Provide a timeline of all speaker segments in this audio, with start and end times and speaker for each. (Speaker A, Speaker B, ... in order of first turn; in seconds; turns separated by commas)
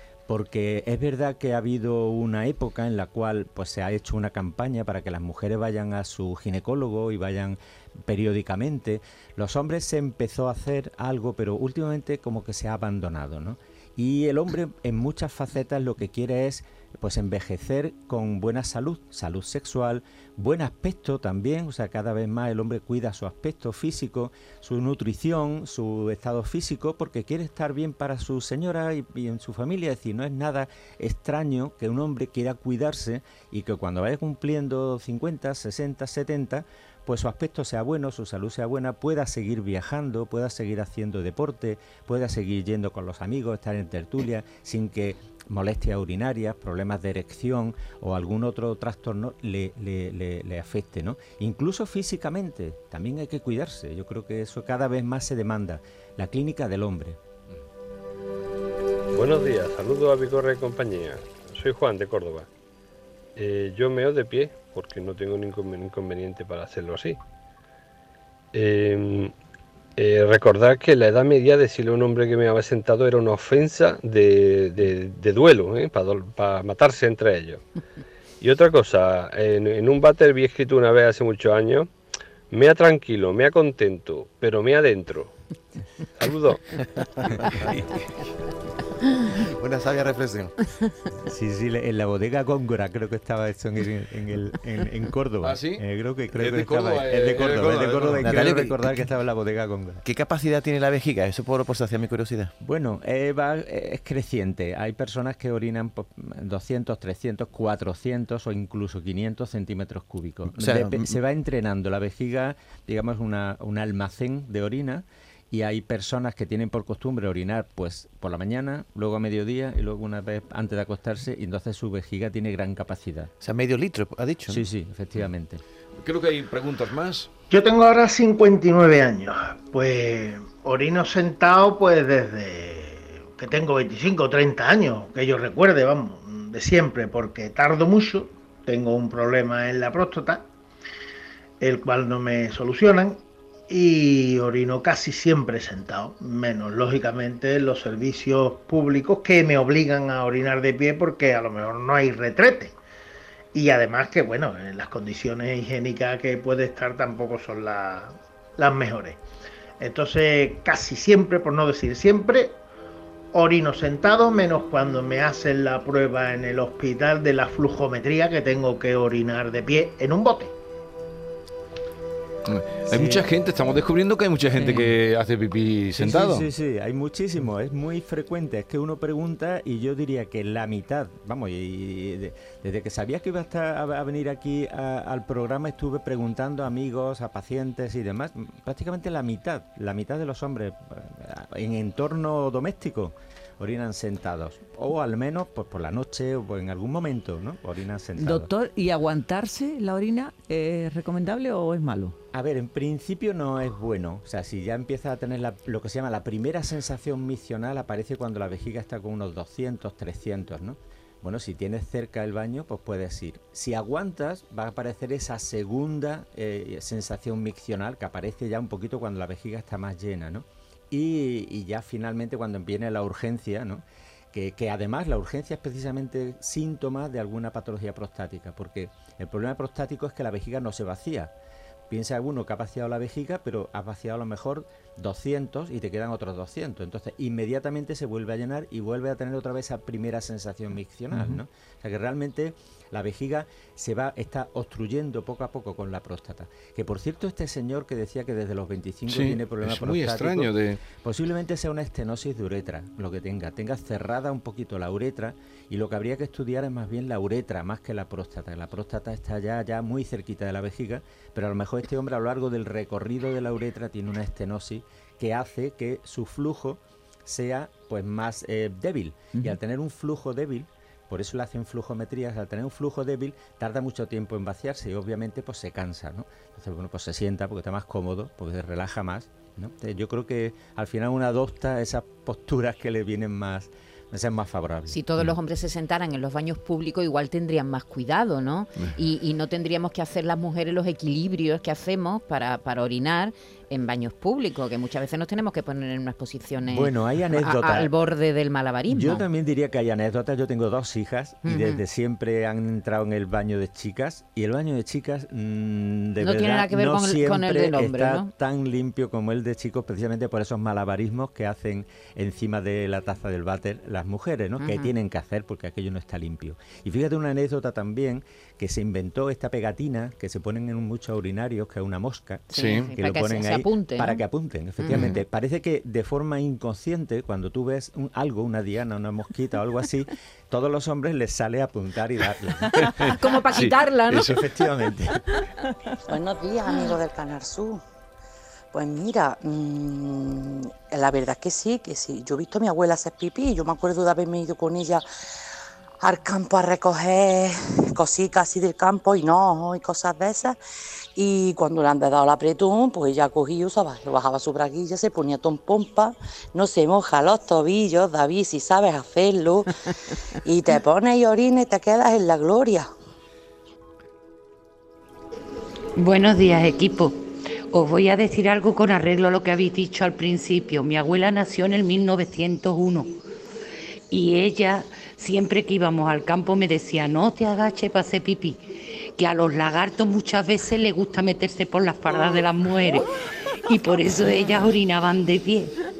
Speaker A: 0.3-57.2, Speaker B: 59.1-62.5, Speaker B: 63.4-67.2, Speaker B: 68.5-69.3, Speaker B: 70.0-77.6, Speaker B: 78.4-81.9, Speaker B: 82.5-85.3, Speaker B: 86.2-86.6, Speaker C: 87.3-87.6, Speaker C: 89.4-90.5, Speaker A: 91.2-100.0, Speaker D: 95.4-95.8, Speaker D: 96.3-98.5, Speaker C: 98.2-98.8, Speaker C: 100.0-102.5, Speaker A: 102.6-123.3, Speaker C: 110.5-111.2, Speaker C: 123.4-124.7, Speaker A: 124.5-125.6, Speaker D: 126.0-127.3, Speaker E: 127.5-140.5, Speaker E: 141.6-152.8, Speaker E: 153.5-159.2, Speaker E: 159.8-162.6, Speaker E: 163.3-170.5, Speaker D: 172.5-176.5, Speaker A: 172.9-173.2, Speaker A: 176.0-198.5, Speaker F: 198.2-202.2, Speaker A: 202.3-231.3, Speaker A: 231.9-285.0, Speaker D: 241.1-241.4, Speaker D: 249.1-250.8, Speaker G: 284.9-299.2, Speaker A: 296.7-297.9, Speaker A: 298.9-333.2, Speaker G: 301.4-301.8, Speaker G: 306.2-308.3, Speaker G: 314.6-314.9, Speaker G: 322.5-324.2, Speaker D: 322.5-322.9, Speaker G: 324.8-325.2, Speaker G: 333.1-334.3, Speaker D: 333.5-334.4, Speaker A: 334.2-335.2, Speaker H: 336.1-337.8, Speaker H: 338.7-345.1, Speaker H: 346.0-350.6, Speaker H: 351.1-359.8, Speaker H: 360.4-362.9, Speaker I: 366.0-373.1, Speaker I: 374.1-383.1, Speaker I: 383.6-385.8